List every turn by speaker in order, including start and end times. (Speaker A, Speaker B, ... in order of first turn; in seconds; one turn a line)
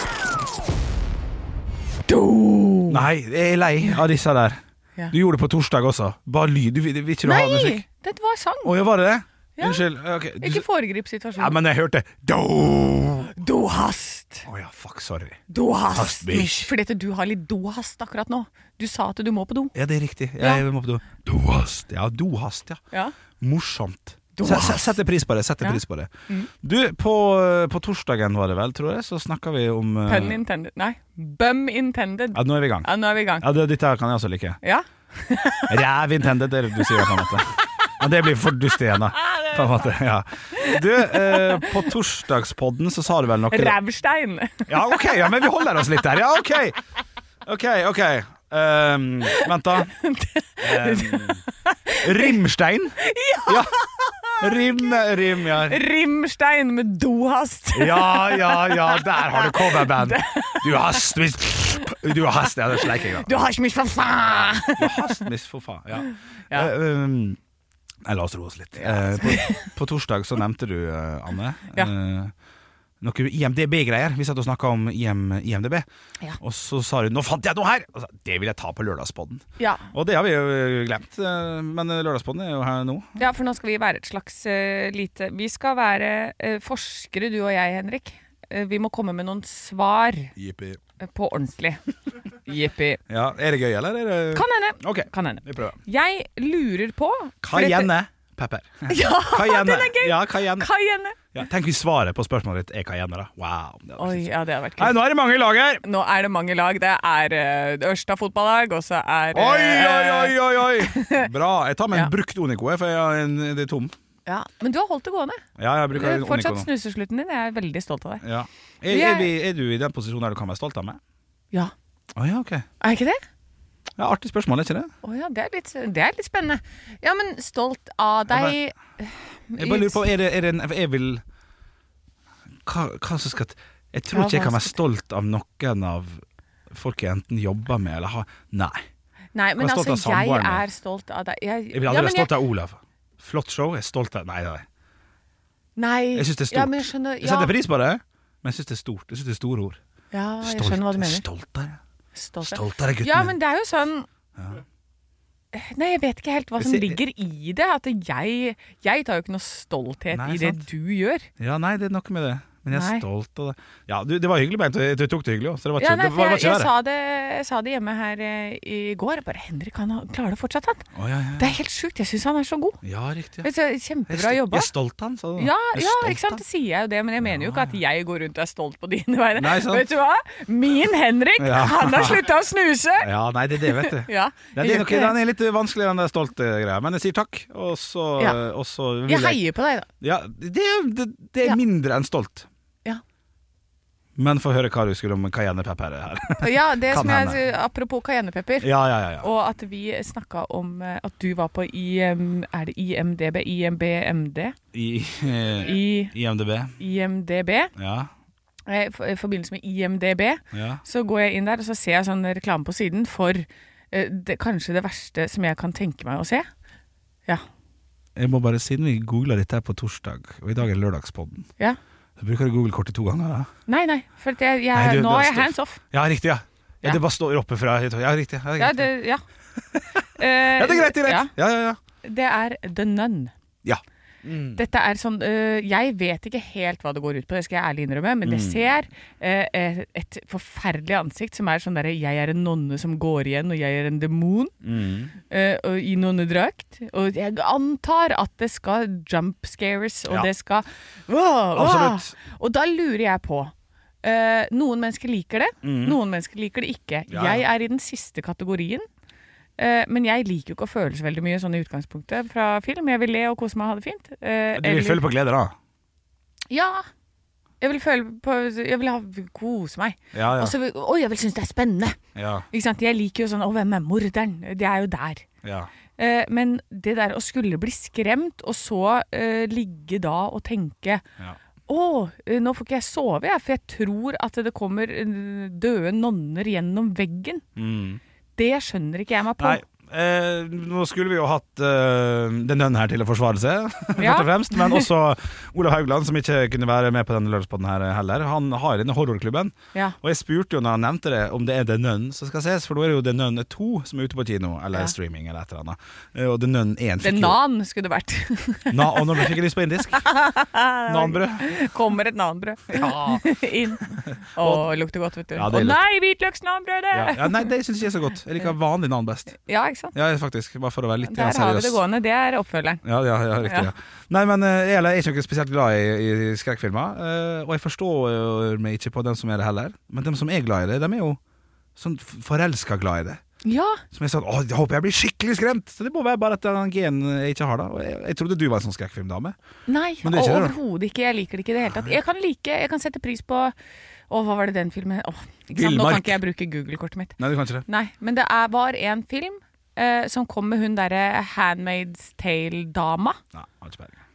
Speaker A: 2.1-3.0
Speaker B: 2.9-4.6
Speaker B: 5.1-7.8
Speaker A: 7.2-8.7
Speaker B: 8.6-10.6
Speaker A: 9.6-9.8
Speaker A: 10.4-11.6
Speaker B: 11.4-13.3
Speaker A: 13.3-14.4
Speaker B: 14.4-15.4
Speaker A: 15.5-19.7
Speaker B: 15.9-16.7
Speaker B: 19.7-22.8
Speaker B: 23.4-26.1
Speaker A: 24.4-24.9
Speaker A: 25.6-26.5
Speaker B: 26.6-30.4
Speaker A: 30.1-33.5
Speaker B: 32.3-34.6
Speaker A: 34.6-35.8
Speaker B: 35.7-43.8
Speaker A: 36.8-37.3
Speaker A: 39.2-39.8
Speaker A: 40.6-41.7
Speaker A: 43.5-45.6
Speaker B: 44.7-46.8
Speaker B: 47.5-49.9
Speaker A: 50.0-52.4
Speaker B: 50.6-51.4
Speaker B: 52.0-53.7
Speaker A: 53.0-54.8
Speaker B: 54.4-55.8
Speaker A: 55.5-61.0
Speaker B: 57.7-63.4
Speaker A: 62.9-65.2
Speaker B: 64.8-67.4
Speaker A: 66.1-66.7
Speaker B: 68.0-72.3
Speaker A: 68.8-69.7
Speaker B: 73.0-75.8
Speaker B: 76.4-83.1
Speaker A: 83.2-90.3
Speaker B: 90.3-90.8
Speaker A: 91.0-91.8
Speaker A: 92.5-93.0
Speaker B: 93.1-95.8
Speaker A: 94.3-97.9
Speaker B: 97.4-100.7
Speaker A: 98.9-101.2
Speaker B: 101.3-105.8
Speaker A: 104.0-105.0
Speaker A: 105.8-111.3
Speaker B: 109.3-113.9
Speaker A: 114.2-115.4
Speaker B: 115.6-116.7
Speaker A: 115.9-118.2
Speaker B: 118.2-121.0
Speaker A: 118.9-119.3
Speaker B: 122.1-122.7
Speaker A: 122.8-123.2
Speaker B: 124.0-124.9
Speaker A: 125.0-130.1
Speaker B: 128.3-128.6
Speaker B: 129.6-131.2
Speaker B: 132.6-138.8
Speaker A: 134.1-134.7
Speaker A: 139.3-142.3
Speaker B: 139.6-140.6
Speaker B: 141.7-144.6
Speaker A: 145.8-147.5
Speaker B: 146.1-149.8
Speaker A: 150.1-151.2
Speaker B: 150.4-151.8
Speaker A: 152.2-154.1
Speaker B: 152.4-153.3
Speaker B: 154.4-154.6
Speaker A: 155.5-161.3
Speaker B: 156.6-157.0
Speaker B: 160.1-160.7
Speaker B: 161.4-166.7
Speaker A: 162.7-163.0
Speaker A: 165.8-170.8
Speaker B: 170.9-171.6
Speaker A: 171.4-172.8
Speaker B: 172.8-173.5
Speaker A: 173.4-174.7
Speaker B: 174.1-176.4
Speaker A: 175.4-185.2
Speaker B: 177.2-177.8
Speaker B: 179.3-179.8
Speaker B: 181.4-182.2
Speaker B: 183.0-189.4
Speaker A: 189.1-189.9
Speaker B: 190.0-192.5
Speaker B: 194.2-197.4
Speaker A: 196.4-198.7
Speaker B: 198.6-199.3
Speaker A: 199.2-204.6
Speaker B: 204.7-206.8
Speaker A: 205.7-206.1
Speaker A: 206.8-207.7
Speaker B: 207.8-208.1
Speaker A: 208.7-216.5
Speaker B: 210.5-210.8
Speaker B: 218.2-221.5
Speaker B: 222.2-223.5
Speaker A: 223.7-225.8
Speaker B: 224.7-228.9
Speaker A: 228.6-229.2
Speaker B: 229.7-231.8
Speaker A: 230.2-231.3
Speaker A: 232.0-233.3
Speaker B: 233.6-234.6
Speaker A: 234.6-244.5
Speaker B: 238.2-238.7
Speaker B: 244.6-245.1
Speaker A: 245.3-258.9
Speaker B: 251.5-252.1
Speaker B: 255.6-256.0
Speaker B: 257.1-257.4
Speaker A: 259.6-265.0
Speaker B: 264.5-265.5
Speaker A: 266.5-266.8
Speaker A: 267.6-272.0
Speaker B: 270.1-270.5
Speaker B: 272.1-272.4
Speaker A: 272.5-275.2
Speaker B: 275.4-275.7
Speaker A: 276.0-281.0
Speaker A: 281.7-287.4
Speaker B: 287.6-288.0
Speaker A: 288.4-289.6
Speaker B: 289.4-307.4
Speaker A: 294.0-294.8
Speaker A: 307.0-309.4
Speaker B: 308.7-310.1
Speaker A: 309.9-317.5
Speaker B: 310.9-311.5
Speaker B: 312.7-313.4
Speaker B: 313.9-314.7
Speaker B: 315.3-315.8
Speaker B: 316.9-319.4
Speaker A: 319.4-319.9
Speaker B: 319.9-321.8
Speaker A: 321.0-322.8
Speaker B: 322.8-331.2
Speaker A: 323.4-323.7
Speaker B: 331.8-333.2
Speaker A: 333.4-333.8
Speaker B: 333.9-339.4
Speaker A: 339.7-343.5
Speaker B: 340.0-340.6
Speaker B: 341.7-341.9
Speaker A: 344.1-353.2
Speaker B: 345.5-346.2
Speaker B: 347.2-347.7
Speaker B: 353.3-353.9